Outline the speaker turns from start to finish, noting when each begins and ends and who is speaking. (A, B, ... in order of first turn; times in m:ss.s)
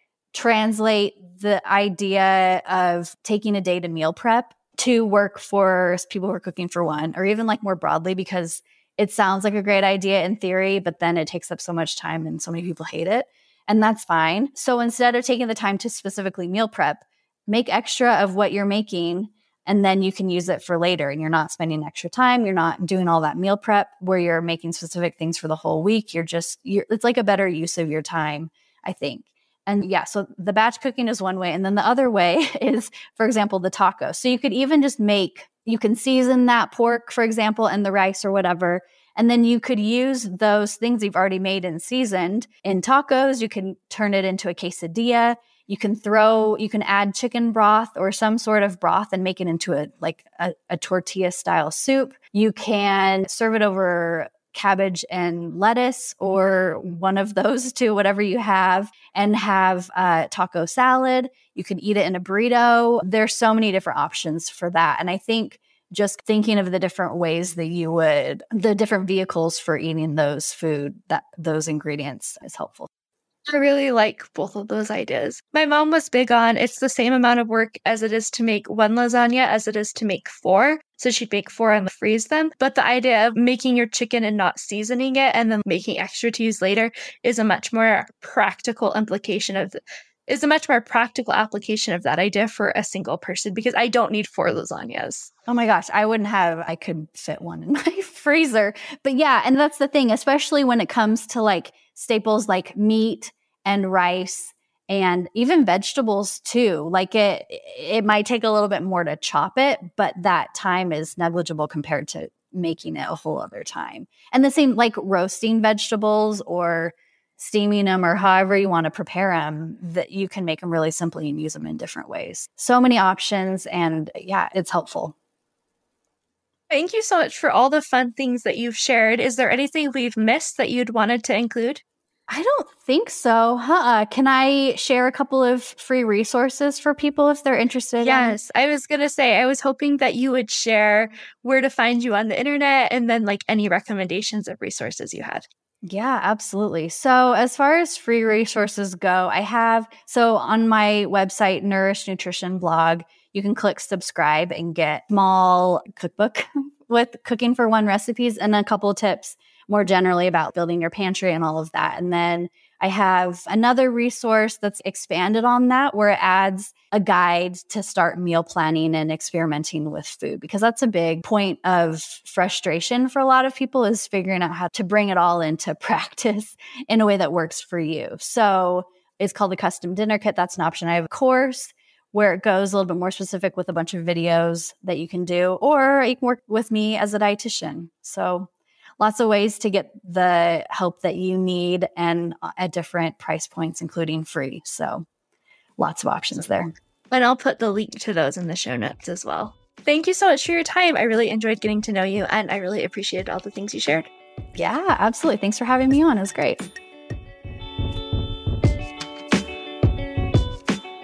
0:00.3-1:12.9 A
1:13.5-1:35.3 B
1:35.5-2:05.2 A
2:06.7-2:11.8 B
2:12.3-2:18.4 A
2:18.0-2:25.5 B
2:25.8-3:15.0 A
3:15.8-3:16.7 A
3:17.1-3:24.1 B
3:24.6-3:26.6 A